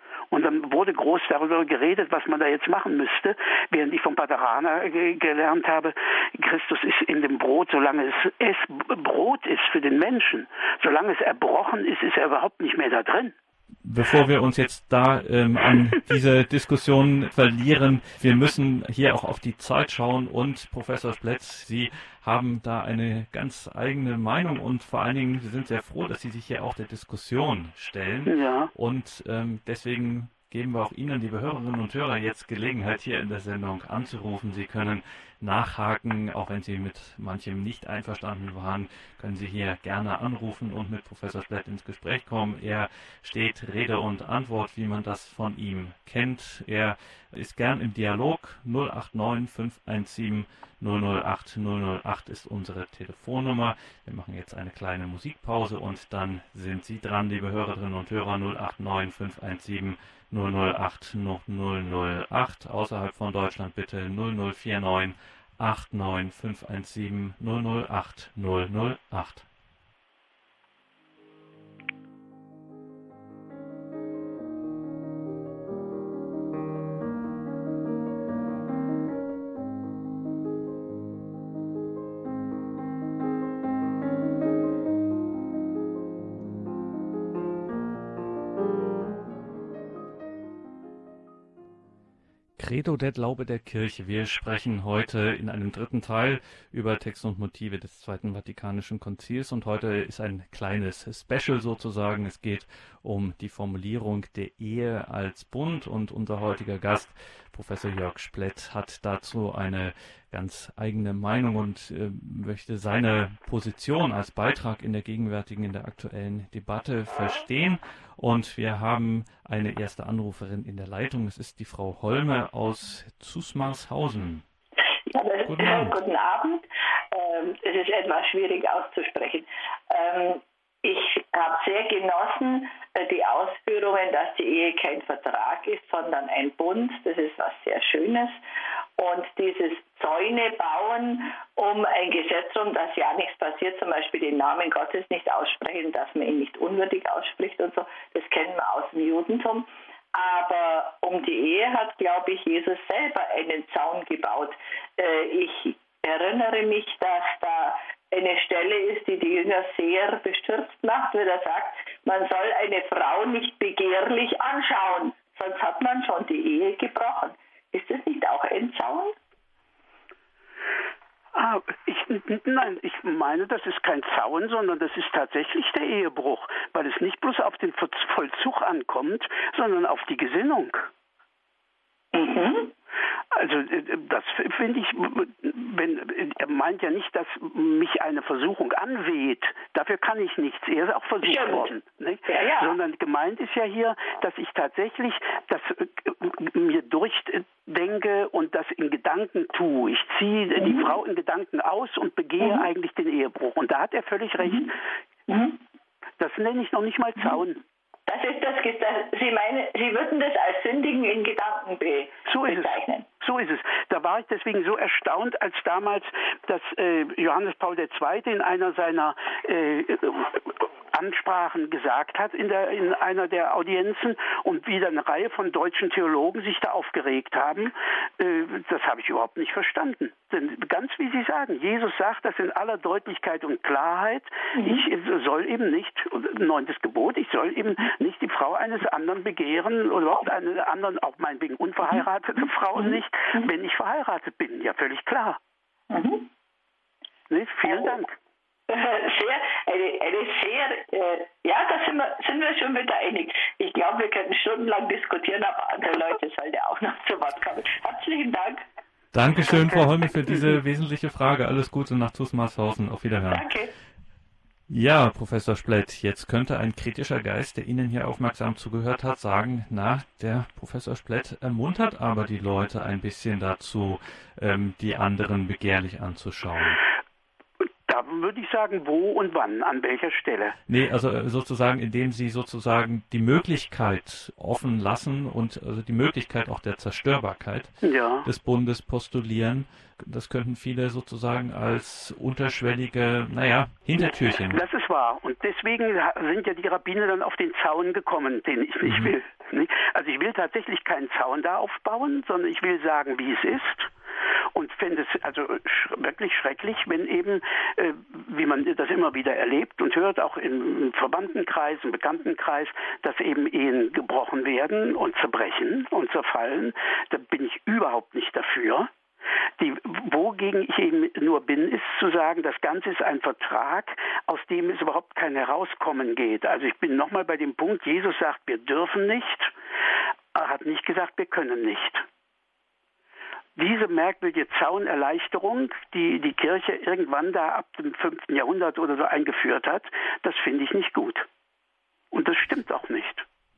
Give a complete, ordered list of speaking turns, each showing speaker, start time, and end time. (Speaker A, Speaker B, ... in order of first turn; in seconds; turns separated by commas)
Speaker A: 0.3-13.3, Speaker B: 13.8-69.5, Speaker A: 28.2-28.7, Speaker B: 92.6-124.4, Speaker C: 125.1-138.4, Speaker B: 125.4-126.0, Speaker C: 139.0-169.2, Speaker A: 171.3-180.9, Speaker C: 182.1-182.7, Speaker A: 183.3-204.8, Speaker C: 191.2-191.7, Speaker C: 192.3-192.7, Speaker C: 200.6-200.9, Speaker C: 202.4-202.7, Speaker C: 204.4-204.7, Speaker C: 205.3-205.6, Speaker A: 206.2-207.6, Speaker C: 208.1-213.1, Speaker A: 212.2-245.4, Speaker C: 234.6-234.8, Speaker C: 242.8-243.5, Speaker C: 245.9-246.3, Speaker A: 247.3-248.2, Speaker C: 247.7-247.9, Speaker C: 248.7-258.6, Speaker B: 259.1-263.5, Speaker C: 263.3-263.7, Speaker B: 264.7-276.8, Speaker A: 277.9-280.6, Speaker B: 280.7-294.6, Speaker A: 287.8-288.3, Speaker A: 294.5-303.9, Speaker B: 298.8-299.1, Speaker A: 304.5-318.9, Speaker A: 319.6-329.5, Speaker A: 330.3-332.1, Speaker A: 333.6-341.3, Speaker A: 342.1-343.2